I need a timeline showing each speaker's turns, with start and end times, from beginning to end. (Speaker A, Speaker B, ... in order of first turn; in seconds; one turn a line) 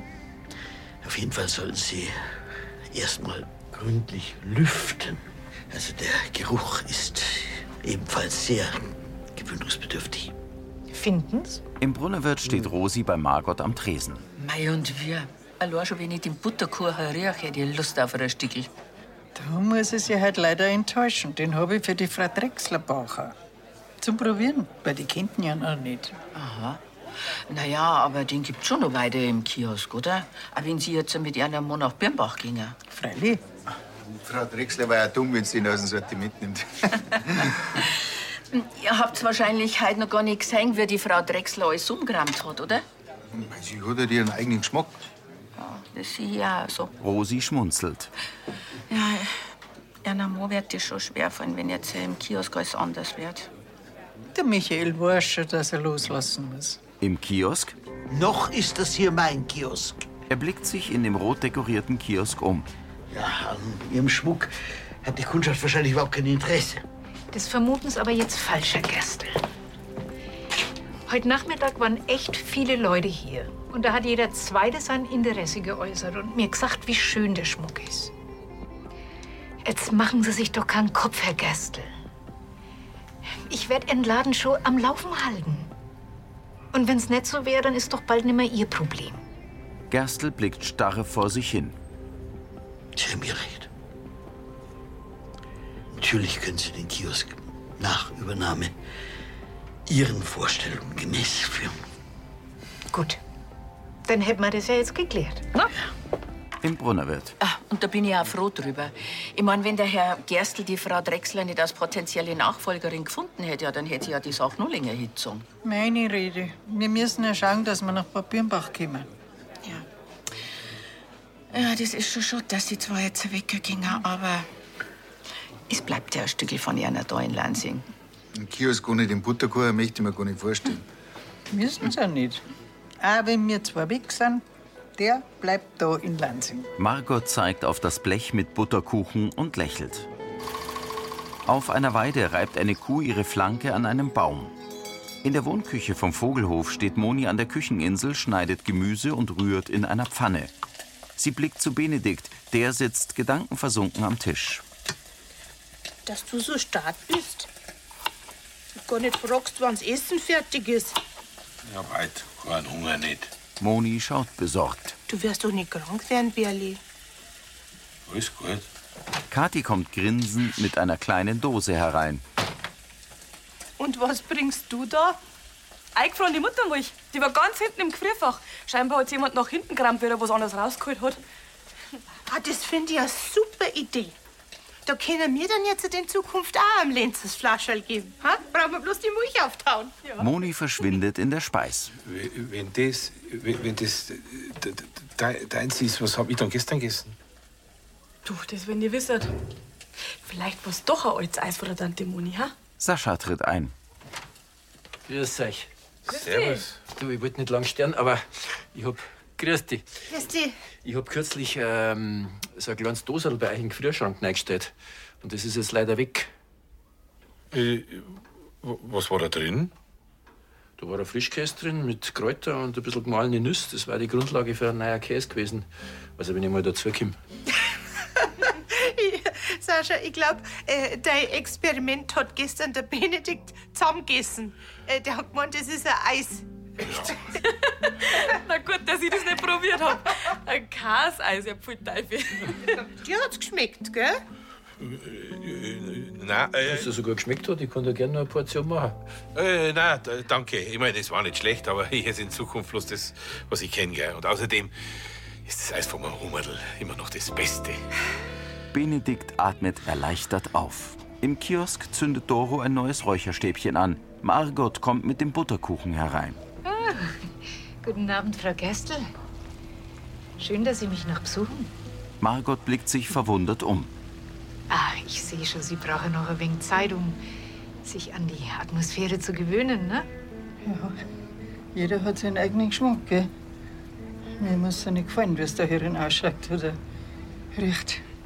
Speaker A: 1.0-2.2
Speaker A: 2.9-10.3
Speaker B: 10.9-11.6
Speaker C: 11.8-14.2
Speaker D: 14.4-18.7
Speaker E: 19.4-23.4
Speaker E: 24.0-26.2
Speaker D: 26.3-26.8
Speaker D: 27.5-32.8
Speaker E: 32.9-33.4
Speaker F: 34.2-37.6
Speaker D: 38.5-42.9
Speaker F: 43.3-45.0
Speaker D: 45.6-46.9
Speaker C: 47.0-48.1
Speaker D: 48.9-49.4
Speaker D: 50.0-53.5
Speaker E: 54.3-56.8
Speaker C: 57.0-57.7
Speaker A: 58.1-60.0
Speaker C: 60.3-62.7
Speaker A: 63.1-64.5
Speaker A: 65.0-66.8
Speaker B: 67.3-69.4
Speaker B: 71.1-78.1
Speaker B: 79.6-81.9
Speaker B: 83.5-85.7
Speaker B: 86.7-89.2
Speaker C: 89.9-91.8
Speaker A: 93.0-93.7
Speaker A: 95.9-98.7
Speaker A: 99.9-101.8
Speaker B: 102.9-103.2
Speaker B: 104.1-105.7
Speaker C: 106.6-107.3
Speaker D: 107.4-115.5
Speaker E: 115.6-119.1
Speaker D: 121.5-124.5
Speaker D: 125.7-127.9
Speaker F: 128.3-130.8
Speaker E: 131.5-132.4
Speaker E: 133.0-134.4
Speaker E: 135.0-136.7
Speaker C: 136.8-140.1
Speaker C: 141.4-144.6
Speaker C: 145.2-150.5
Speaker C: 151.2-154.6
Speaker G: 156.1-157.5
Speaker G: 158.8-161.0
Speaker H: 161.7-163.3
Speaker C: 163.6-165.0
Speaker G: 165.1-166.8
Speaker H: 168.1-168.7
Speaker C: 169.3-172.2
Speaker G: 173.8-175.2
Speaker I: 175.9-181.2
Speaker G: 182.3-184.1
Speaker G: 184.9-190.0
Speaker C: 190.2-191.9
Speaker H: 192.0-197.2
Speaker I: 198.2-199.3
Speaker I: 200.2-202.5
Speaker C: 202.8-203.7
Speaker J: 205.1-205.7
Speaker H: 206.1-206.8
Speaker I: 206.1-206.7
Speaker J: 206.9-209.9
Speaker G: 210.1-210.6
Speaker J: 210.8-216.3
Speaker H: 217.5-219.7
Speaker J: 220.8-225.7
Speaker J: 226.2-227.2
Speaker G: 228.4-236.4
Speaker I: 237.4-242.8
Speaker G: 243.0-244.2
Speaker H: 244.8-246.8
Speaker J: 246.6-249.0
Speaker H: 249.3-254.7
Speaker H: 255.4-257.8
Speaker C: 258.7-266.4
Speaker B: 266.6-267.3
Speaker B: 267.8-269.1
Speaker B: 270.4-271.7
Speaker C: 272.2-273.9
Speaker B: 274.7-277.2
Speaker B: 277.8-280.1
Speaker E: 280.6-281.0
Speaker E: 281.7-283.3
Speaker E: 284.4-286.8
Speaker E: 287.5-288.0